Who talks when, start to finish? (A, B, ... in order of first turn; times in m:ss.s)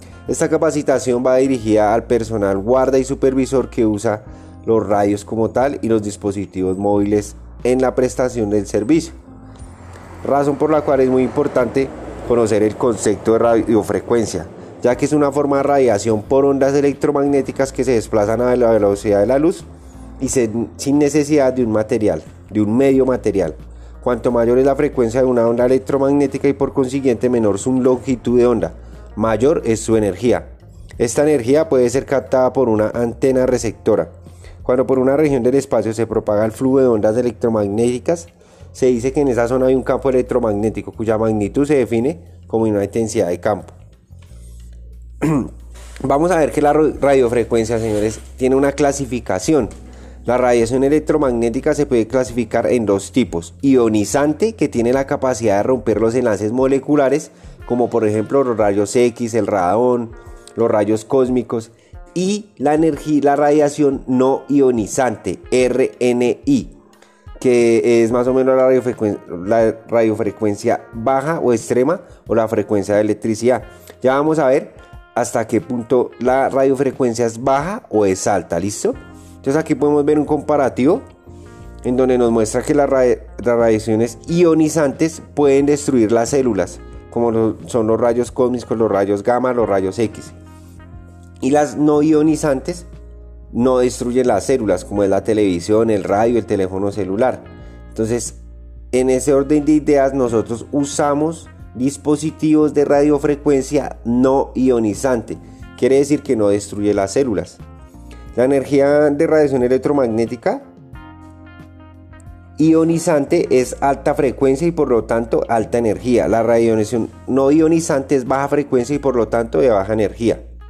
0:00.3-0:09.2 A
0:10.2-0:19.7 A
0:20.2-0:34.1 A
0:34.6-0:43.8 A
0:45.2-0:45.5 A
0:46.0-0:49.7 A
0:50.2-1:06.8 A
1:07.4-1:21.0 A
1:21.8-1:30.4 A
1:31.4-1:32.9 A
1:33.5-1:38.4 A
1:38.9-1:47.6 A
1:48.3-1:50.6 A
1:52.6-2:00.4 A